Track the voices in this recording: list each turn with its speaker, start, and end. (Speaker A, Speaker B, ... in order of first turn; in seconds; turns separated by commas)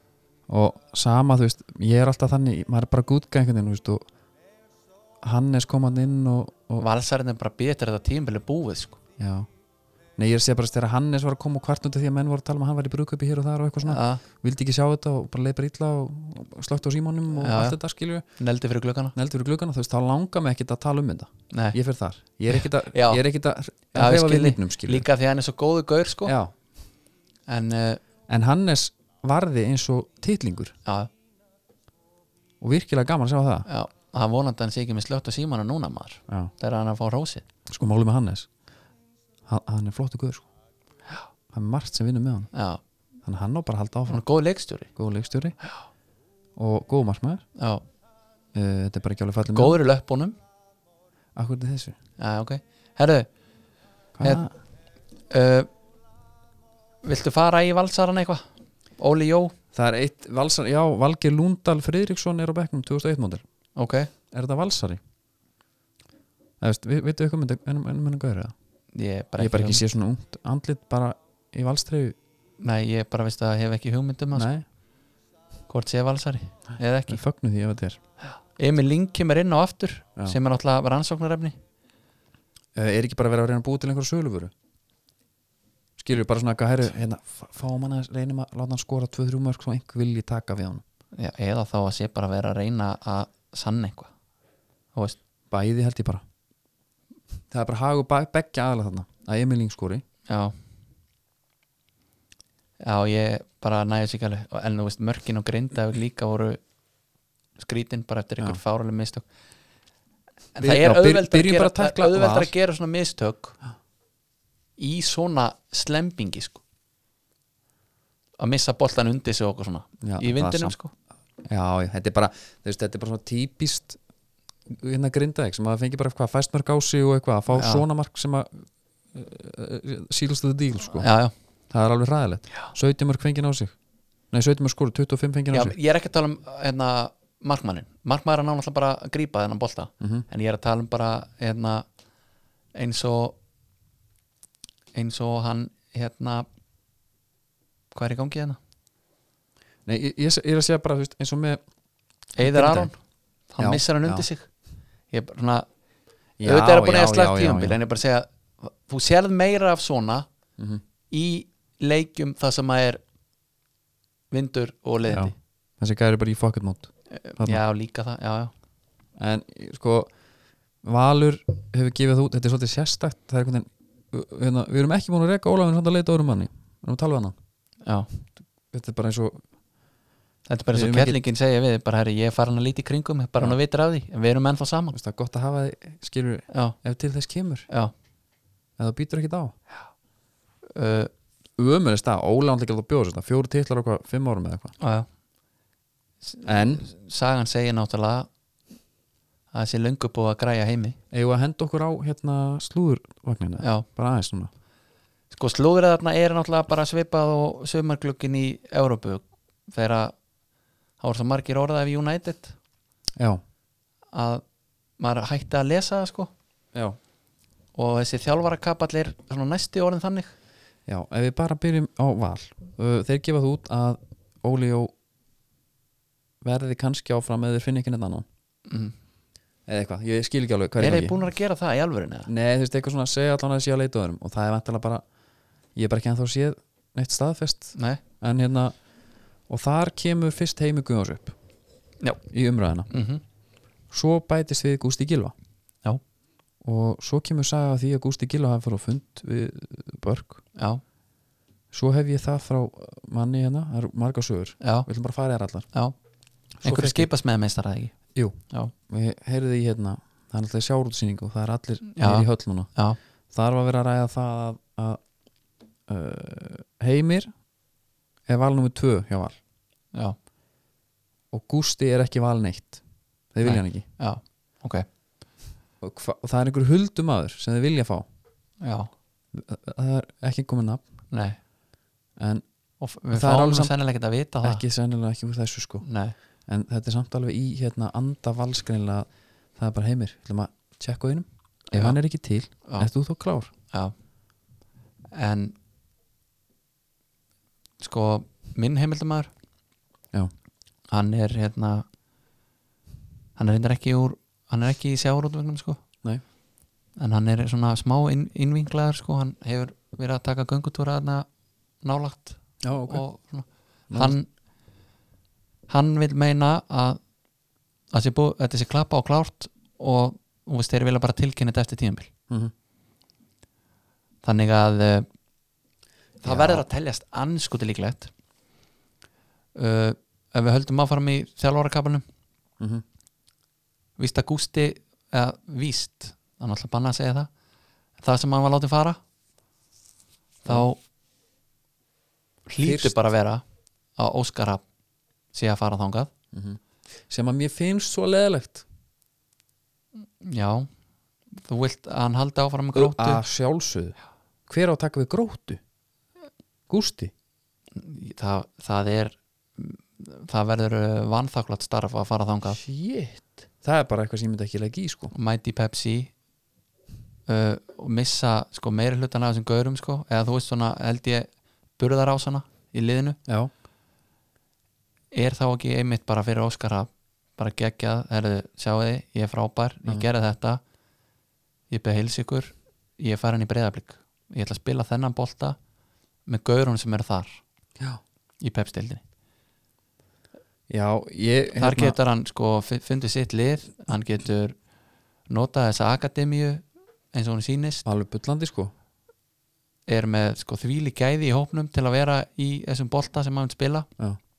Speaker A: 0.5-4.0, Speaker A: 5.2-6.8, Speaker B: 6.8-9.0, Speaker A: 9.2-9.5, Speaker A: 10.2-18.2, Speaker B: 13.8-14.2, Speaker B: 17.4-17.8, Speaker B: 18.4-19.1, Speaker A: 19.1-25.1, Speaker B: 21.5-21.8, Speaker B: 22.5-23.2, Speaker B: 23.9-26.3, Speaker A: 26.2-26.5, Speaker B: 27.5-28.0, Speaker A: 28.3-30.7, Speaker B: 30.8-31.1, Speaker A: 32.6-33.7, Speaker B: 33.6-37.4, Speaker A: 37.7-38.5, Speaker A: 39.5-40.5, Speaker A: 41.5-42.5, Speaker B: 42.5-42.8, Speaker A: 43.2-44.2, Speaker B: 44.1-44.9, Speaker A: 44.9-45.6, Speaker A: 46.6-47.4, Speaker B: 47.6-47.8, Speaker A: 48.5-49.8, Speaker B: 49.5-50.4, Speaker A: 51.4-52.0, Speaker B: 52.2-53.3, Speaker A: 54.1-54.5, Speaker B: 55.3-55.7, Speaker B: 57.0-58.4, Speaker B: 59.0-59.5, Speaker A: 59.7-63.4, Speaker B: 63.8-64.1, Speaker A: 64.3-65.0, Speaker A: 66.6-68.5, Speaker B: 68.9-69.9, Speaker A: 69.4-72.2, Speaker B: 72.6-74.5, Speaker A: 74.3-74.6, Speaker B: 75.7-77.2, Speaker A: 77.1-78.0, Speaker B: 78.3-81.5, Speaker A: 82.7-84.5, Speaker A: 86.0-90.8, Speaker B: 91.1-94.1, Speaker A: 95.5-96.2, Speaker A: 97.5-100.0, Speaker B: 100.3-100.5, Speaker B: 102.8-106.6, Speaker B: 107.6-109.2, Speaker B: 110.5-113.6, Speaker A: 110.6-112.5, Speaker B: 114.8-116.6, Speaker B: 118.4-120.9, Speaker A: 120.0-120.8, Speaker A: 121.5-124.0, Speaker A: 124.7-128.5, Speaker B: 127.5-127.8, Speaker A: 129.1-131.1, Speaker B: 131.0-131.3, Speaker A: 131.7-133.7, Speaker A: 134.3-135.8, Speaker B: 135.5-141.8, Speaker B: 142.7-143.4, Speaker B: 144.9-146.4, Speaker B: 147.9-148.6, Speaker A: 149.8-151.6, Speaker B: 152.4-153.0, Speaker A: 152.4-152.9, Speaker B: 153.5-154.5, Speaker A: 153.6-154.3, Speaker B: 155.1-155.7, Speaker A: 156.4-157.8, Speaker B: 156.4-160.3, Speaker A: 160.6-160.8, Speaker B: 161.1-163.0, Speaker B: 164.3-165.3, Speaker A: 165.1-167.6, Speaker B: 167.1-168.5, Speaker A: 169.2-170.1, Speaker A: 170.8-177.3, Speaker B: 177.8-178.1, Speaker A: 178.7-179.4, Speaker B: 180.5-184.9, Speaker A: 180.7-181.2, Speaker A: 184.9-187.7, Speaker B: 186.5-186.8, Speaker A: 188.8-189.5, Speaker B: 190.7-191.1, Speaker A: 191.6-194.7, Speaker B: 194.8-195.1, Speaker B: 196.2-198.3, Speaker A: 196.4-196.8, Speaker B: 199.5-201.0, Speaker A: 201.1-204.5, Speaker B: 203.6-203.8, Speaker B: 205.3-210.1, Speaker B: 211.0-212.6, Speaker B: 214.1-214.4, Speaker B: 215.0-216.3, Speaker B: 217.7-220.3, Speaker A: 220.9-224.9, Speaker A: 226.4-228.2, Speaker B: 228.7-228.9, Speaker A: 229.7-231.1, Speaker B: 230.8-232.3, Speaker A: 232.3-235.0, Speaker A: 235.7-238.7, Speaker B: 237.7-238.0, Speaker A: 239.5-241.3, Speaker A: 242.3-242.9, Speaker B: 242.9-243.2, Speaker A: 243.9-245.3, Speaker A: 246.6-250.4, Speaker B: 250.6-250.8, Speaker A: 251.7-255.7, Speaker B: 254.6-254.9, Speaker A: 256.6-257.1, Speaker B: 256.6-257.9, Speaker A: 258.1-262.7, Speaker B: 261.9-263.0, Speaker A: 263.3-265.0, Speaker A: 265.9-267.3, Speaker A: 268.3-269.4, Speaker A: 271.3-272.8, Speaker A: 273.3-273.8, Speaker B: 273.4-274.9, Speaker A: 275.8-278.1, Speaker B: 278.6-278.9, Speaker A: 279.3-280.8, Speaker B: 281.1-281.4, Speaker A: 282.2-282.4, Speaker B: 282.8-284.6, Speaker A: 283.1-283.7, Speaker A: 284.4-285.8, Speaker B: 285.8-286.1, Speaker A: 286.5-293.5, Speaker B: 291.7-292.0, Speaker B: 295.1-295.5, Speaker B: 297.8-299.3, Speaker B: 300.9-301.8, Speaker B: 303.4-305.8, Speaker B: 307.0-311.2, Speaker B: 311.8-314.3, Speaker A: 312.6-313.0, Speaker A: 313.9-314.1, Speaker B: 315.7-317.0, Speaker B: 317.9-322.1, Speaker B: 324.2-325.1, Speaker B: 326.2-328.1, Speaker A: 326.2-326.6, Speaker B: 329.6-332.0, Speaker B: 334.0-337.3, Speaker B: 338.0-339.0, Speaker B: 340.4-340.8, Speaker B: 342.5-343.4, Speaker A: 342.6-343.0, Speaker B: 343.9-344.6, Speaker B: 345.3-346.1, Speaker A: 346.3-348.6, Speaker B: 350.2-350.7, Speaker B: 351.4-353.2, Speaker A: 352.7-353.9, Speaker A: 354.5-355.6, Speaker A: 356.7-357.1, Speaker B: 357.7-362.6, Speaker A: 362.5-365.1, Speaker B: 365.1-366.1, Speaker B: 367.3-373.2, Speaker B: 375.1-380.6, Speaker B: 381.7-385.6, Speaker B: 386.2-387.4, Speaker B: 388.4-389.0, Speaker A: 390.7-392.0, Speaker B: 391.6-394.6, Speaker B: 395.3-397.8, Speaker A: 397.8-398.7, Speaker B: 399.9-403.9